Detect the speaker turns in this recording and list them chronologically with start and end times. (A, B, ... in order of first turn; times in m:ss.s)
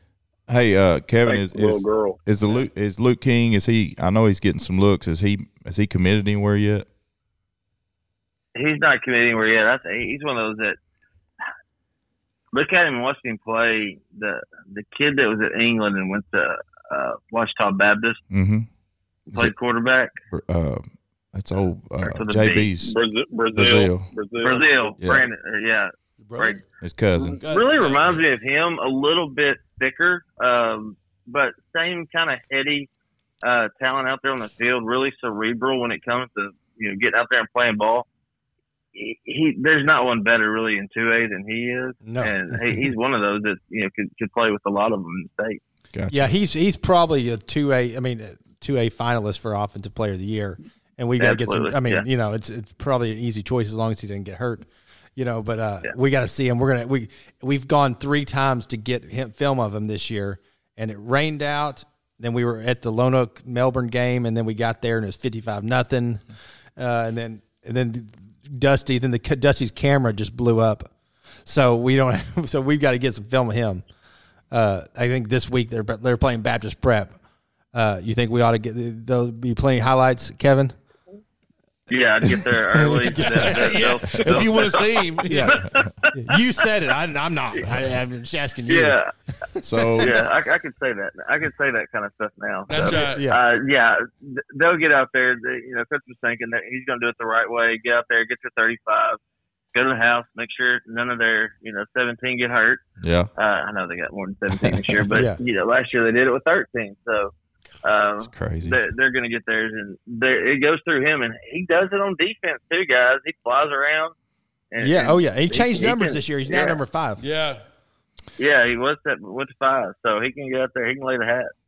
0:00.5-0:06.8 A
0:01.2-0:02.2 B
0:08.5-0:10.8 C
0:12.5-0:18.2 C
0:18.3-0:18.7 A
0:19.3-0:20.1 C
0:20.3-0:22.9 A
0:22.1-0:22.7 C
0:22.8-0:24.7 B
0:23.5-0:24.1 A
0:24.4-0:26.6 C
0:25.0-0:25.3 A
0:26.2-0:26.6 D
0:26.8-0:27.4 A
0:27.3-0:32.9 C
0:27.3-0:28.2 D
0:33.4-0:38.0 C
0:38.9-0:45.6 C
0:42.0-0:42.3 E
0:45.9-0:46.3 A
0:46.1-1:06.2 E
0:51.2-0:52.0 C
1:06.8-1:10.9 E
1:11.4-1:13.8 E
1:14.5-1:17.2 E
1:17.7-1:20.7 E
1:21.9-1:26.1 C
1:22.2-1:23.8 E
1:23.4-1:25.6 D
1:25.2-1:25.6 E
1:26.1-1:29.0 E
1:28.7-1:29.1 C
1:29.5-1:30.1 E
1:29.6-1:30.2 A
1:30.0-1:39.2 C
1:32.7-1:33.2 D
1:32.8-1:33.4 E
1:39.7-1:42.8 C
1:43.0-1:43.3 A
1:43.4-1:47.3 C
1:44.5-1:45.0 A
1:45.1-1:45.4 E
1:47.8-1:54.1 C
1:48.2-1:48.8 A
1:54.7-1:56.8 C
1:54.8-1:57.2 E
1:57.2-1:57.6 D
1:58.4-2:01.5 C